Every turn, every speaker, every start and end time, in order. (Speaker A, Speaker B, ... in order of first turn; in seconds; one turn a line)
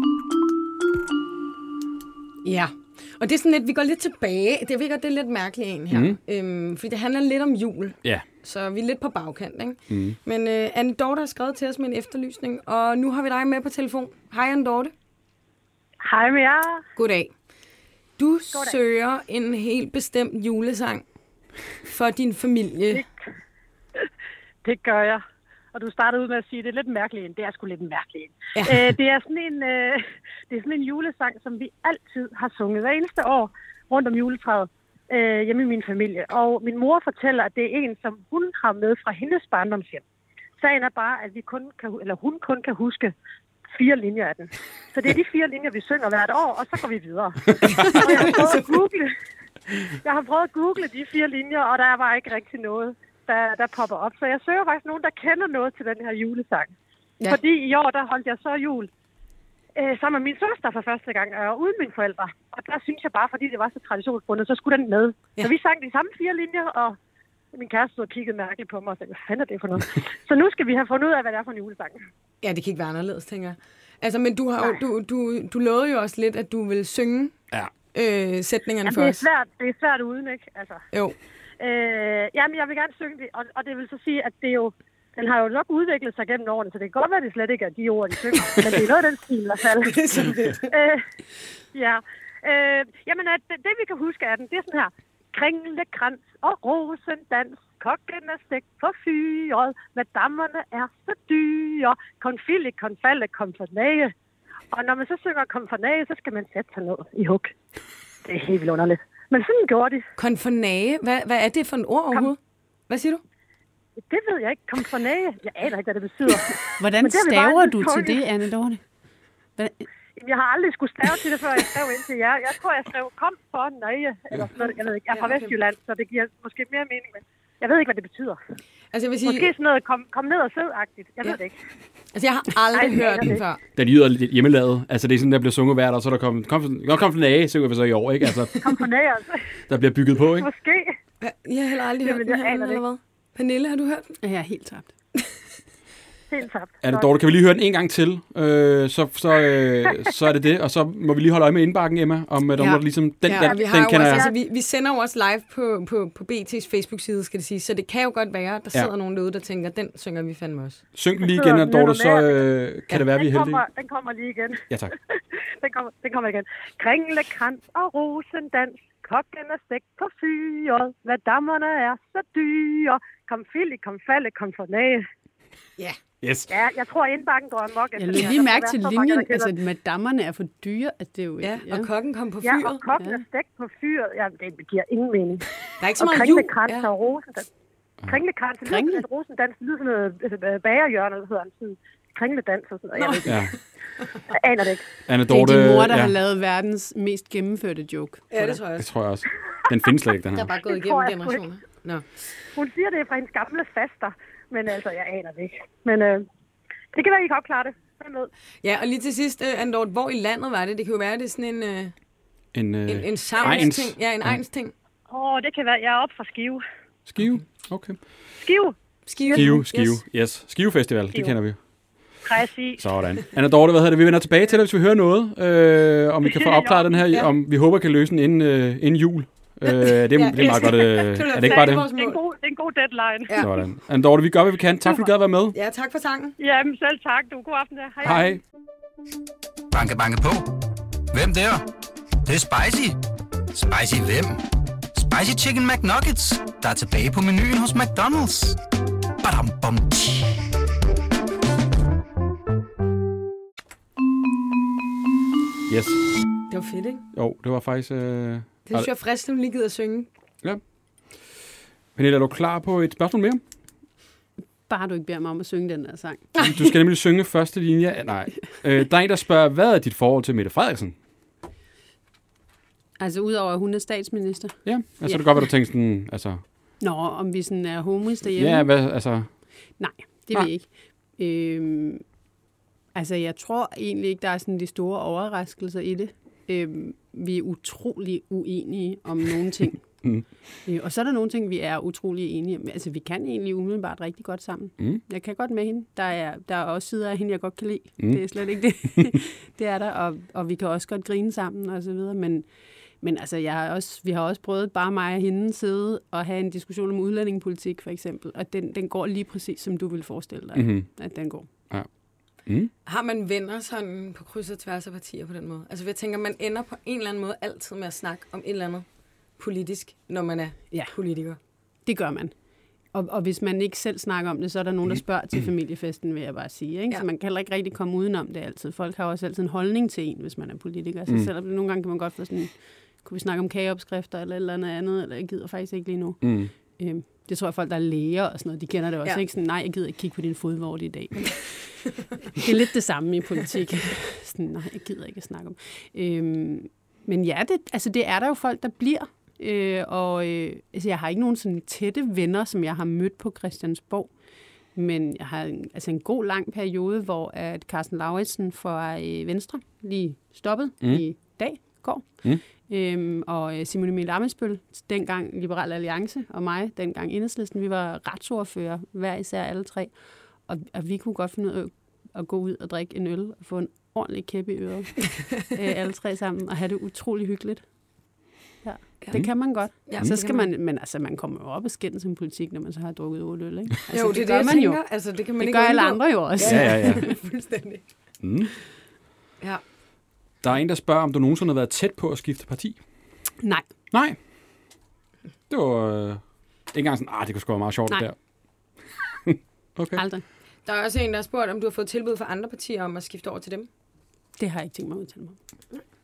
Speaker A: 2.4-14.9
Speaker B: 5.9-6.2
Speaker B: 9.9-10.2
Speaker C: 16.0-16.8
Speaker A: 17.0-17.3
Speaker A: 18.2-21.0
Speaker A: 21.9-23.1
Speaker C: 24.6-40.0
Speaker A: 28.6-28.9
Speaker C: 40.6-43.1
Speaker C: 43.8-49.1
Speaker A: 47.7-48.7
Speaker C: 50.0-56.7
Speaker C: 57.2-58.9
Speaker C: 59.8-67.0
Speaker C: 67.5-72.0
Speaker A: 72.4-77.3
Speaker A: 77.9-79.2
Speaker C: 78.8-80.8
Speaker C: 81.6-90.0
Speaker A: 89.8-90.7
Speaker C: 90.7-91.0
Speaker C: 91.7-104.1
Speaker C: 104.7-107.5
Speaker C: 108.2-110.1
Speaker A: 110.2-112.4
Speaker A: 112.9-113.2
Speaker C: 114.1-118.2
Speaker D: 116.8-118.8
Speaker D: 119.6-119.8
Speaker C: 120.2-128.4
Speaker A: 125.1-125.5
Speaker A: 128.9-129.5
Speaker C: 129.2-131.6
Speaker A: 132.1-133.6
Speaker C: 132.7-133.4
Speaker B: 133.8-138.8
Speaker C: 138.6-139.4
Speaker B: 139.7-140.5
Speaker C: 140.4-140.9
Speaker A: 141.2-144.2
Speaker C: 142.0-142.8
Speaker D: 144.2-144.9
Speaker C: 146.3-147.1
Speaker B: 146.8-154.3
Speaker A: 153.3-160.8
Speaker C: 153.4-154.3
Speaker B: 160.9-163.6
Speaker C: 161.2-162.4
Speaker C: 163.1-164.6
Speaker C: 165.6-175.1
Speaker B: 176.2-176.5
Speaker C: 176.5-179.5
Speaker D: 177.9-181.9
Speaker A: 181.4-182.8
Speaker C: 182.4-185.4
Speaker A: 185.8-186.9
Speaker C: 186.0-187.5
Speaker C: 188.1-193.5
Speaker D: 188.7-189.1
Speaker A: 193.0-193.6
Speaker B: 193.3-193.6
Speaker C: 194.3-194.9
Speaker B: 195.1-196.2
Speaker D: 195.3-198.6
Speaker A: 198.3-198.9
Speaker B: 198.8-200.5
Speaker A: 200.3-202.1
Speaker C: 200.6-201.4
Speaker C: 202.6-206.3
Speaker C: 206.9-208.3
Speaker A: 208.6-211.9
Speaker B: 212.5-214.4
Speaker A: 212.9-214.7
Speaker C: 215.1-216.6
Speaker B: 217.1-218.0
Speaker C: 218.4-219.6
Speaker A: 219.1-220.0
Speaker B: 219.3-221.6
Speaker C: 222.2-222.8
Speaker B: 222.8-231.9
Speaker C: 226.2-226.9
Speaker A: 229.7-232.2
Speaker C: 231.3-233.5
Speaker B: 233.4-235.6
Speaker A: 235.5-236.4
Speaker C: 236.4-238.4
Speaker B: 238.0-238.4
Speaker E: 239.7-240.5
Speaker E: 241.1-241.6
Speaker E: 242.3-243.0
Speaker E: 243.5-244.4
Speaker E: 244.9-248.6
Speaker E: 249.2-250.4
Speaker B: 255.7-256.0
Speaker A: 256.5-257.0
Speaker B: 257.1-258.9
Speaker A: 258.7-260.1
Speaker B: 262.0-263.4
Speaker D: 264.7-266.3
Speaker B: 266.4-271.0
Speaker D: 273.0-275.2
Speaker B: 274.7-276.4
Speaker D: 276.8-278.7
Speaker B: 278.4-279.3
Speaker D: 279.8-282.0
Speaker D: 282.9-289.8
Speaker D: 290.7-302.5
Speaker D: 303.0-311.5
Speaker B: 310.6-310.9
Speaker B: 312.5-312.7
Speaker A: 312.9-318.9
Speaker A: 319.4-321.4
Speaker D: 321.9-322.3
Speaker D: 322.9-341.7
Speaker B: 336.2-336.5
Speaker D: 342.3-354.1
Speaker D: 354.8-369.9
Speaker D: 370.5-377.6
Speaker D: 378.6-384.8
Speaker A: 379.9-380.5
Speaker A: 383.9-387.8
Speaker D: 385.4-387.1
Speaker B: 386.4-387.0
Speaker B: 388.2-388.5
Speaker B: 390.4-392.8
Speaker B: 393.9-394.2
Speaker B: 395.5-396.2
Speaker B: 396.7-398.1
Speaker B: 399.2-400.0
Speaker D: 399.9-400.2
Speaker A: 400.7-403.7
Speaker D: 404.4-405.4